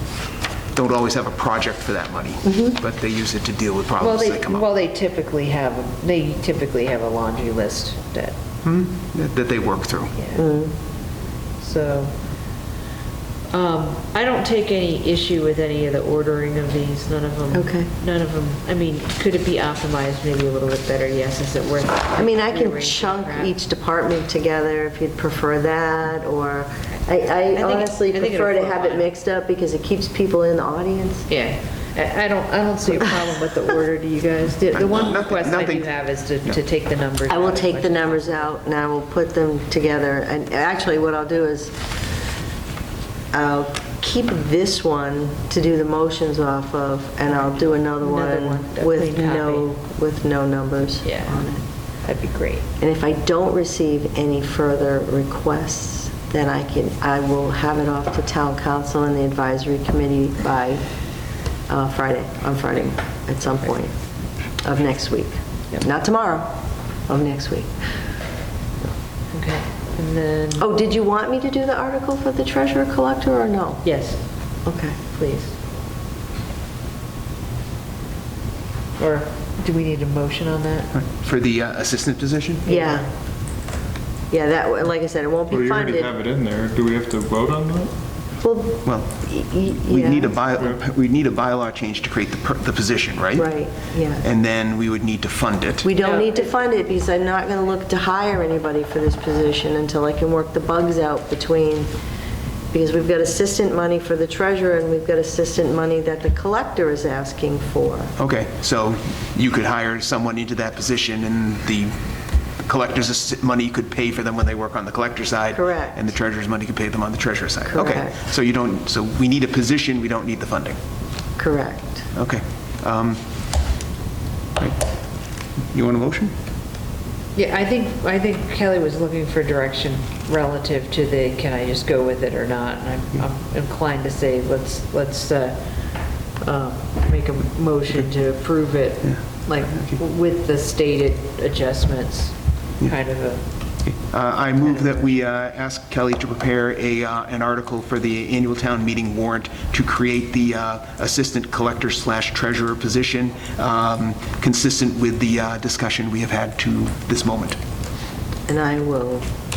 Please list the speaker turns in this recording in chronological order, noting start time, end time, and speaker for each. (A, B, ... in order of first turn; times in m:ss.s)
0:00.7-0:04.7 A
0:02.4-0:02.8 B
0:04.0-0:08.3 C
0:08.6-0:10.1 A
0:10.2-0:10.4 C
0:10.3-0:10.7 B
0:11.6-0:12.1 C
0:13.5-0:23.5 C
0:17.5-0:17.9 B
0:22.1-0:31.3 B
0:27.5-0:29.0 C
0:31.3-0:38.5 C
0:34.7-0:35.9 A
0:37.3-0:41.8 B
0:43.3-0:51.6 B
0:47.7-0:49.7 C
0:51.0-0:51.4 C
0:52.0-0:52.6 C
0:52.8-1:00.8 B
1:01.7-1:03.9 B
1:04.6-1:06.5 B
1:07.1-1:07.7 B
1:09.3-1:10.6 C
1:10.6-1:13.8 B
1:13.8-1:14.2 C
1:14.6-1:15.0 B
1:15.0-1:15.5 C
1:19.0-1:20.9 C
1:20.9-1:22.6 A
1:22.6-1:23.0 C
1:22.6-1:23.1 B
1:24.3-1:26.1 B
1:25.5-1:27.9 D
1:28.4-1:30.3 B
1:28.8-1:33.6 A
1:33.4-1:34.2 B
1:34.2-1:35.9 A
1:35.8-1:41.9 B
1:36.0-1:36.5 C
1:42.7-1:48.1 B
1:48.2-1:51.9 A
1:52.6-2:00.8 A
1:55.5-1:56.1 B
1:57.6-1:58.1 B
2:01.4-2:02.0 B
2:02.1-2:03.2 A
2:05.7-2:06.3 A
2:07.4-2:15.6 C
2:16.4-2:23.4 C
2:23.8-2:37.6 A
2:38.5-2:39.2 B